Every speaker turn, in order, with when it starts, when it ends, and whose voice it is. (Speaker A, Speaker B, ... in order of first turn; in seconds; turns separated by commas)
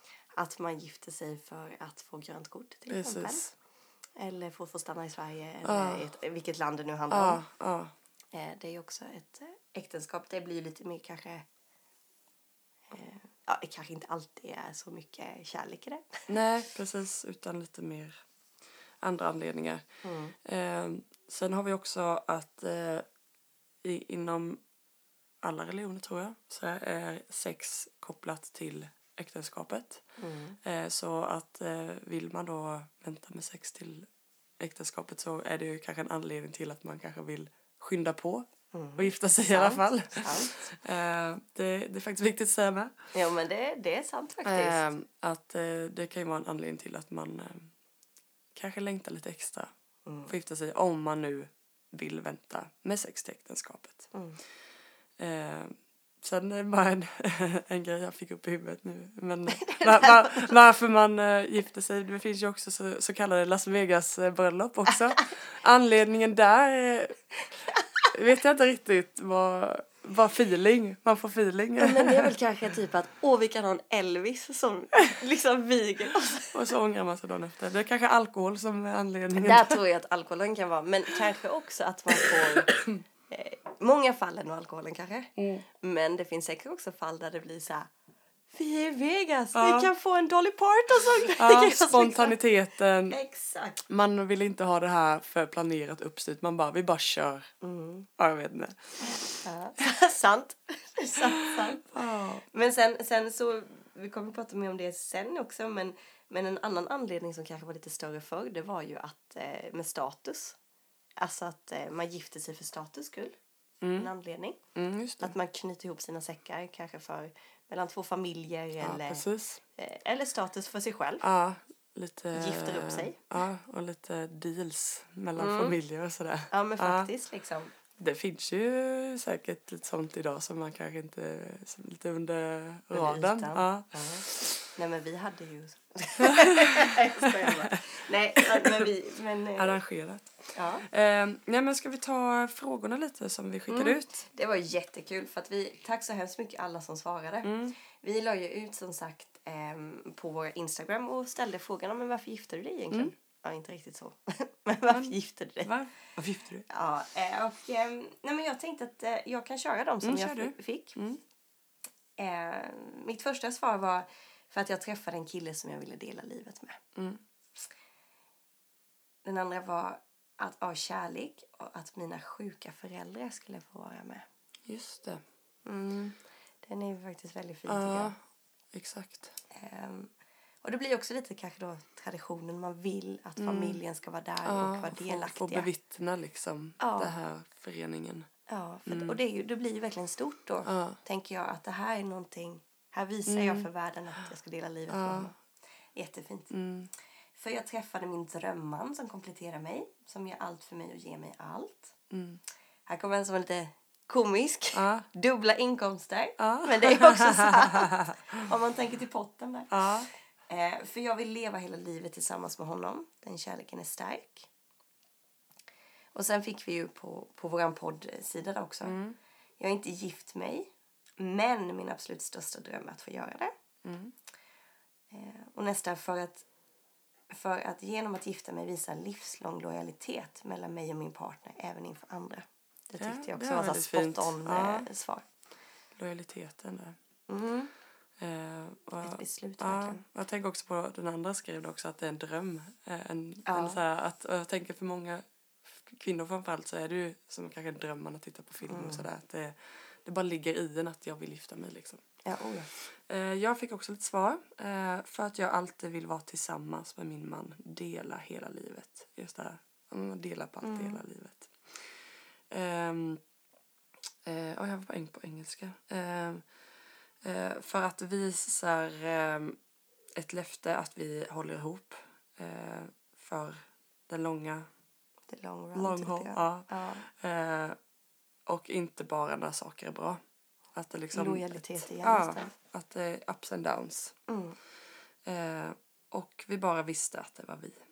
Speaker A: 0.4-3.5, Speaker B: 2.9-3.5, Speaker A: 4.2-7.4, Speaker B: 5.6-6.1, Speaker B: 7.1-7.9, Speaker A: 8.3-11.4, Speaker A: 12.9-16.3, Speaker B: 16.3-18.2, Speaker B: 19.0-19.8, Speaker A: 20.0-20.3, Speaker B: 20.4-23.0, Speaker B: 23.8-24.6, Speaker B: 25.4-30.0, Speaker A: 30.2-30.6, Speaker B: 30.6-42.9, Speaker A: 38.7-40.8, Speaker A: 43.1-44.9, Speaker B: 44.4-47.7, Speaker B: 48.5-49.7, Speaker A: 50.0-50.3, Speaker B: 50.3-54.1, Speaker A: 54.1-54.4, Speaker B: 55.2-67.2, Speaker A: 59.5-60.5, Speaker B: 68.1-72.3, Speaker A: 71.8-76.5, Speaker B: 76.5-79.8, Speaker A: 79.3-82.7, Speaker B: 82.1-83.0, Speaker A: 83.3-87.9, Speaker B: 85.4-85.6, Speaker A: 88.5-92.4, Speaker B: 89.5-89.9, Speaker B: 91.3-93.2, Speaker A: 93.1-93.8, Speaker B: 93.9-97.5, Speaker A: 97.6-98.1, Speaker B: 98.2-99.4, Speaker A: 99.4-102.0, Speaker B: 101.6-102.4, Speaker A: 102.5-110.6, Speaker A: 111.2-113.4, Speaker B: 113.8-114.1, Speaker A: 113.9-114.6, Speaker B: 114.7-115.3, Speaker A: 115.2-119.2, Speaker B: 118.8-119.6, Speaker A: 119.8-121.3, Speaker B: 121.2-127.1, Speaker A: 122.3-123.2, Speaker A: 125.4-125.7, Speaker A: 126.5-127.7, Speaker B: 128.0-134.6, Speaker A: 132.9-139.8, Speaker B: 136.4-137.8, Speaker B: 138.4-138.9, Speaker B: 139.6-144.2, Speaker A: 140.5-140.9, Speaker A: 143.7-155.7, Speaker B: 147.4-147.7, Speaker B: 154.9-156.6, Speaker A: 156.7-161.0, Speaker B: 160.0-161.2, Speaker A: 162.2-166.8, Speaker B: 166.9-167.2, Speaker A: 169.2-174.2, Speaker B: 174.7-175.2, Speaker A: 175.7-178.1, Speaker B: 177.7-178.2, Speaker B: 178.7-179.4, Speaker A: 179.5-180.1, Speaker A: 180.6-185.7, Speaker B: 183.4-183.8, Speaker B: 184.4-188.3, Speaker A: 186.8-187.1, Speaker A: 188.5-195.3, Speaker B: 188.8-189.2, Speaker B: 190.7-191.0, Speaker B: 193.3-193.7, Speaker B: 194.9-195.3, Speaker A: 195.9-196.5, Speaker B: 196.5-196.9, Speaker A: 197.3-201.9, Speaker B: 202.1-202.4, Speaker A: 202.9-209.9, Speaker B: 204.7-205.1, Speaker B: 206.4-208.4, Speaker B: 209.7-210.1, Speaker A: 210.5-214.5, Speaker A: 216.1-219.0, Speaker B: 218.8-219.2, Speaker A: 219.6-223.5, Speaker B: 223.8-224.1, Speaker A: 225.1-226.4, Speaker A: 227.3-235.2, Speaker B: 233.0-234.9, Speaker B: 235.9-237.0, Speaker A: 237.3-237.7, Speaker B: 238.2-252.0, Speaker A: 239.0-240.0, Speaker A: 243.4-243.8, Speaker A: 248.6-249.1, Speaker A: 252.2-252.7, Speaker B: 252.9-262.0, Speaker A: 260.6-261.0, Speaker B: 262.5-263.2, Speaker B: 264.2-266.4, Speaker B: 267.2-269.6, Speaker B: 270.2-274.7, Speaker A: 275.3-277.1, Speaker B: 275.7-277.8, Speaker B: 278.5-280.2, Speaker B: 280.7-284.2, Speaker A: 281.1-282.5, Speaker A: 284.3-284.6, Speaker B: 285.2-287.8